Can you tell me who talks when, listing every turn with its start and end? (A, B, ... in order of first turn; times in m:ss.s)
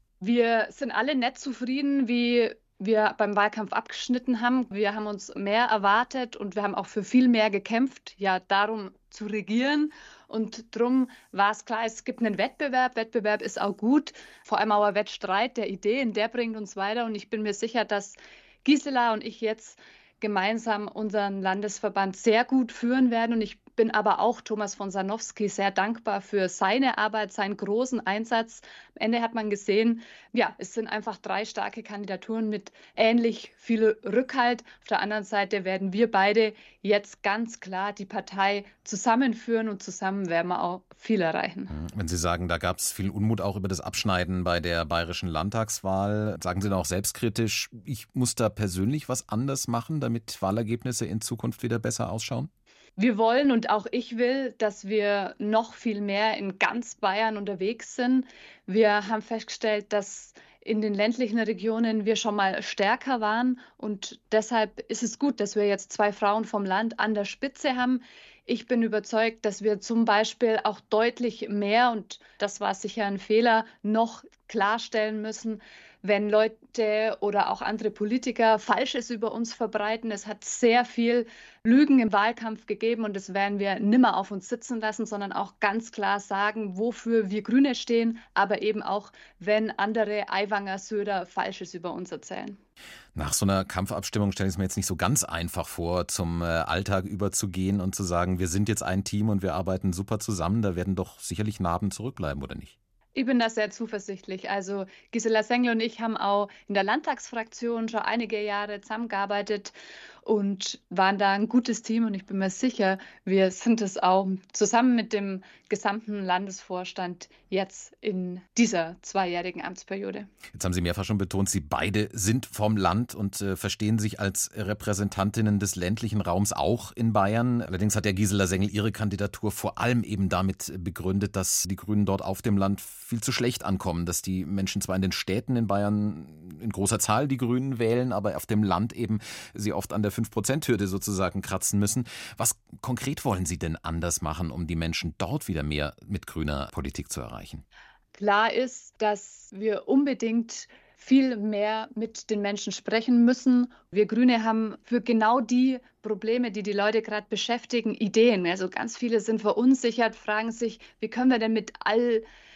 0:00.2-0:41.7 A
0:41.7-0:52.5 B
0:53.0-1:32.6 A
1:33.2-1:42.7 B
1:43.1-2:00.3 A
2:00.5-2:27.6 B
2:28.1-2:42.2 A